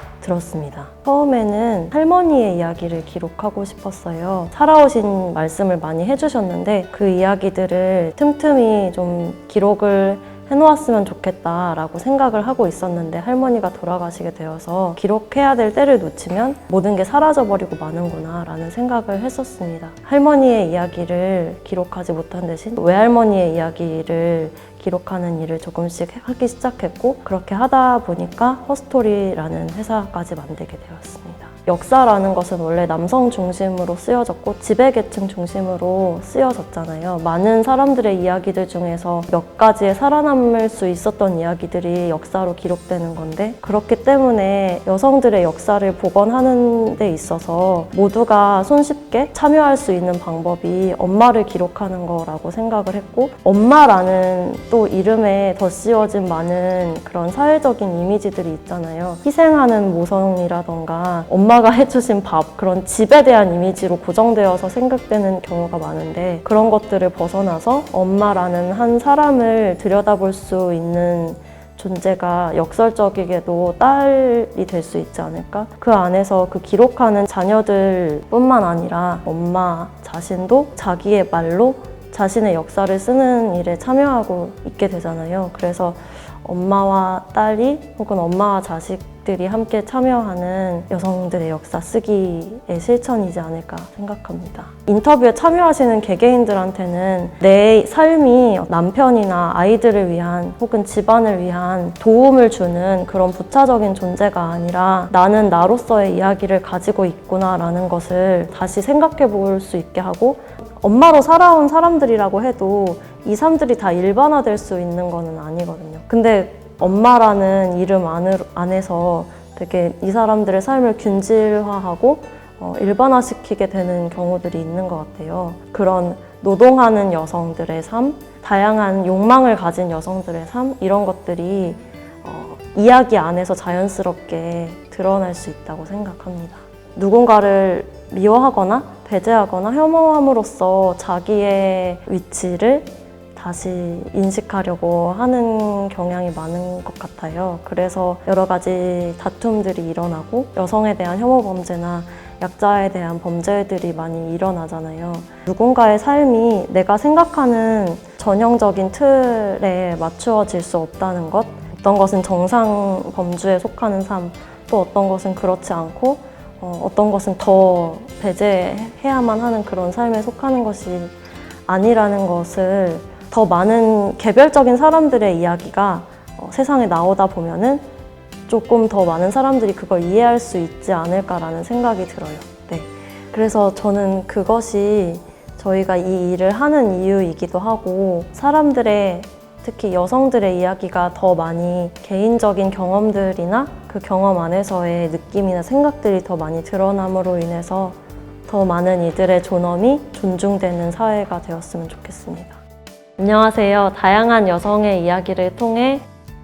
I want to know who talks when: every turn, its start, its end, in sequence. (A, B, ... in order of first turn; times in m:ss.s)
0:00.2-2:57.8 A
2:58.5-3:22.6 A
3:23.2-3:26.0 A